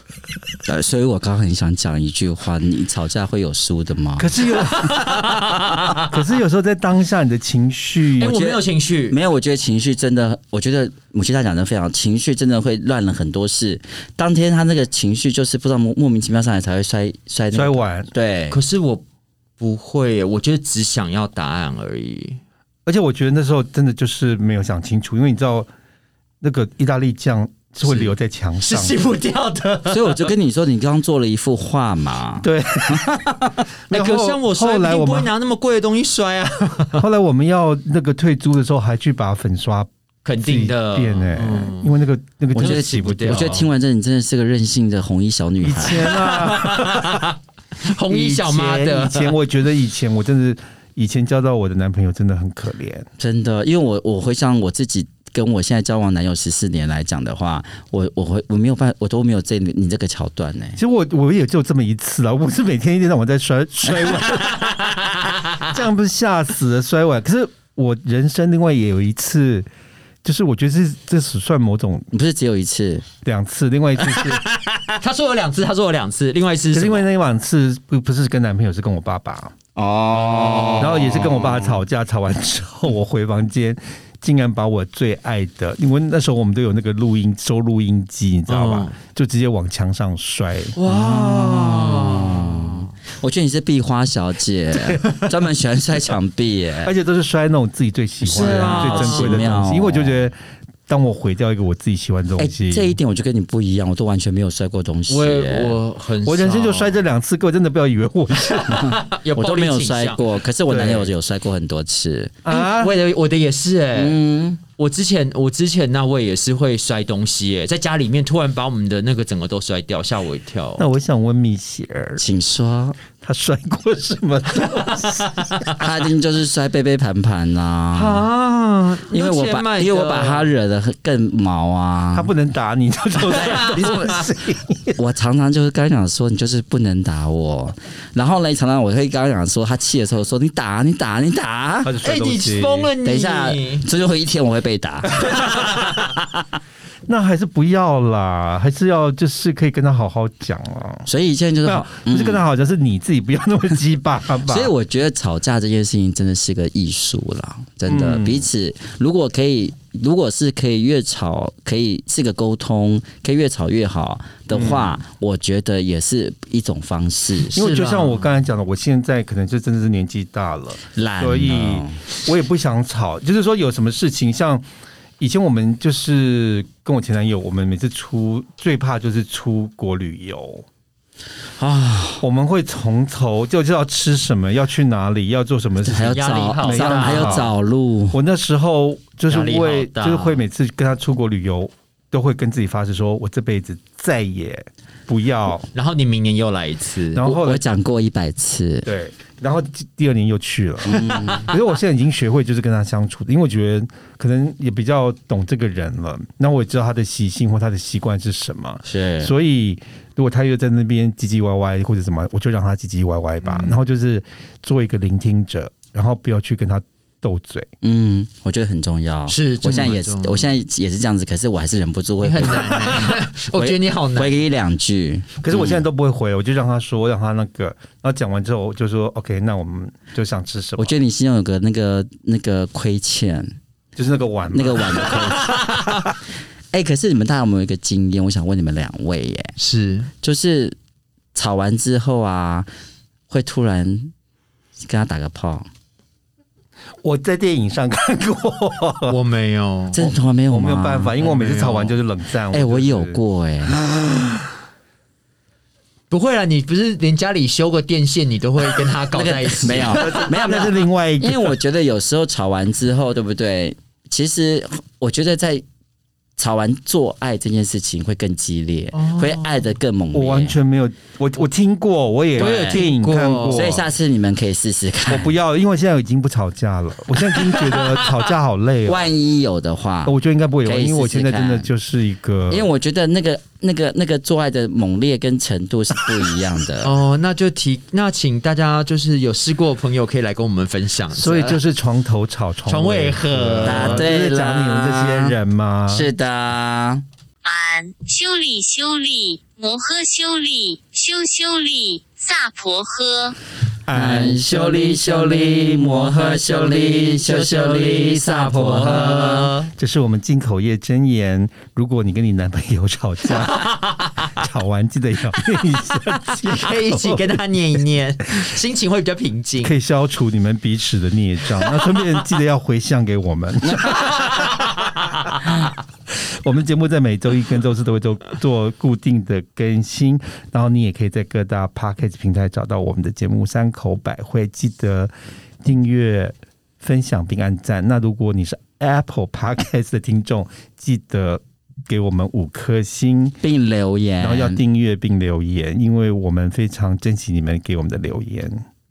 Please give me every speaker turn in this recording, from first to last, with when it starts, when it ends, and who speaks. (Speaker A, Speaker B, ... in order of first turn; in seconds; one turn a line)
Speaker A: 0.7-4.3
Speaker B: 4.2-5.4
Speaker C: 4.7-6.1
Speaker B: 6.0-8.4
Speaker C: 8.2-9.2
Speaker A: 8.2-18.6
Speaker B: 17.5-18.1
Speaker C: 18.5-19.0
Speaker C: 19.6-22.4
Speaker B: 22.9-25.7
Speaker B: 26.4-29.0
Speaker C: 27.8-30.3
Speaker A: 29.9-33.0
Speaker B: 32.4-35.3
Speaker C: 33.9-37.1
Speaker B: 37.0-39.9
Speaker C: 40.2-41.9
Speaker B: 40.4-43.7
Speaker A: 42.5-46.2
Speaker C: 42.6-43.7
Speaker B: 45.6-47.3
Speaker C: 46.0-49.4
Speaker B: 48.0-53.1
Speaker A: 53.2-60.8
Speaker B: 60.8-69.7
Speaker C: 64.3-65.3
Speaker B: 70.2-72.1
Speaker A: 72.1-73.1
Speaker B: 73.2-74.4
Speaker C: 74.2-77.0
Speaker B: 76.7-79.5
Speaker A: 79.8-81.6
Speaker C: 80.2-81.7
Speaker B: 80.8-90.8
Speaker C: 88.5-88.9
Speaker C: 90.8-92.9
Speaker A: 90.8-96.9
Speaker B: 96.8-100.3
Speaker A: 98.2-100.2
Speaker C: 98.3-99.6
Speaker B: 100.9-103.0
Speaker A: 102.4-105.8
Speaker C: 105.1-107.0
Speaker B: 106.2-109.0
Speaker C: 108.5-110.2
Speaker A: 108.7-112.4
Speaker B: 110.7-111.1
Speaker B: 112.4-112.9
Speaker C: 112.5-114.2
Speaker A: 114.0-114.6
Speaker C: 114.8-120.9
Speaker B: 120.8-122.2
Speaker A: 122.2-123.0
Speaker B: 123.1-125.4
Speaker A: 125.8-128.2
Speaker C: 127.9-130.5
Speaker A: 129.1-132.3
Speaker B: 132.1-135.0
Speaker C: 133.3-134.2
Speaker A: 135.0-142.0
Speaker B: 141.8-142.9
Speaker C: 142.0-143.9
Speaker A: 143.0-146.4
Speaker C: 145.4-145.8
Speaker B: 147.1-151.1
Speaker A: 151.1-152.4
Speaker B: 151.7-154.7
Speaker A: 154.5-167.6
Speaker B: 157.9-158.5
Speaker B: 164.5-165.0
Speaker C: 167.5-168.3
Speaker B: 167.6-174.7
Speaker A: 170.9-172.0
Speaker B: 175.2-180.7
Speaker A: 181.6-182.2
Speaker B: 182.2-187.5
Speaker A: 185.8-188.2
Speaker C: 186.1-187.5
Speaker B: 188.1-195.7
Speaker C: 189.3-190.4
Speaker C: 195.7-197.2
Speaker B: 197.1-197.6
Speaker A: 197.2-198.9
Speaker B: 198.8-217.7
Speaker A: 200.8-201.5
Speaker A: 208.8-209.3
Speaker C: 213.4-213.7
Speaker A: 217.8-225.8
Speaker C: 219.3-220.6
Speaker C: 222.2-224.3
Speaker B: 225.4-231.0
Speaker A: 230.8-233.6
Speaker B: 234.0-235.5
Speaker A: 234.5-235.9
Speaker C: 235.1-236.0
Speaker A: 236.7-239.5
Speaker C: 239.6-240.1
Speaker A: 240.2-240.8
Speaker A: 241.3-242.7
Speaker A: 243.3-244.1
Speaker A: 244.8-245.7
Speaker B: 247.0-249.2
Speaker C: 249.1-250.1
Speaker A: 249.9-251.1
Speaker B: 250.5-253.2
Speaker C: 251.2-251.9
Speaker A: 252.5-253.8
Speaker C: 256.1-260.4
Speaker A: 259.1-265.6
Speaker B: 259.9-261.6
Speaker A: 266.4-270.6
Speaker C: 268.9-269.6
Speaker B: 270.1-273.9
Speaker C: 272.4-273.8
Speaker A: 272.4-272.8
Speaker A: 273.5-275.3
Speaker B: 275.1-279.1
Speaker C: 277.5-278.0
Speaker A: 278.9-281.7
Speaker B: 280.1-282.7
Speaker A: 282.5-286.9
Speaker C: 286.8-291.6
Speaker B: 291.1-296.1
Speaker C: 292.7-294.1
Speaker A: 293.6-295.4
Speaker A: 295.9-297.0
Speaker D: 297.4-303.4
Speaker B: 303.9-306.3
Speaker A: 303.9-309.5
Speaker C: 307.1-309.7
Speaker B: 308.9-313.8
Speaker C: 313.4-314.3
Speaker B: 314.4-317.4
Speaker C: 316.2-319.7
Speaker B: 319.6-324.7
Speaker B: 325.3-343.4
Speaker A: 343.4-344.6
Speaker B: 344.2-348.6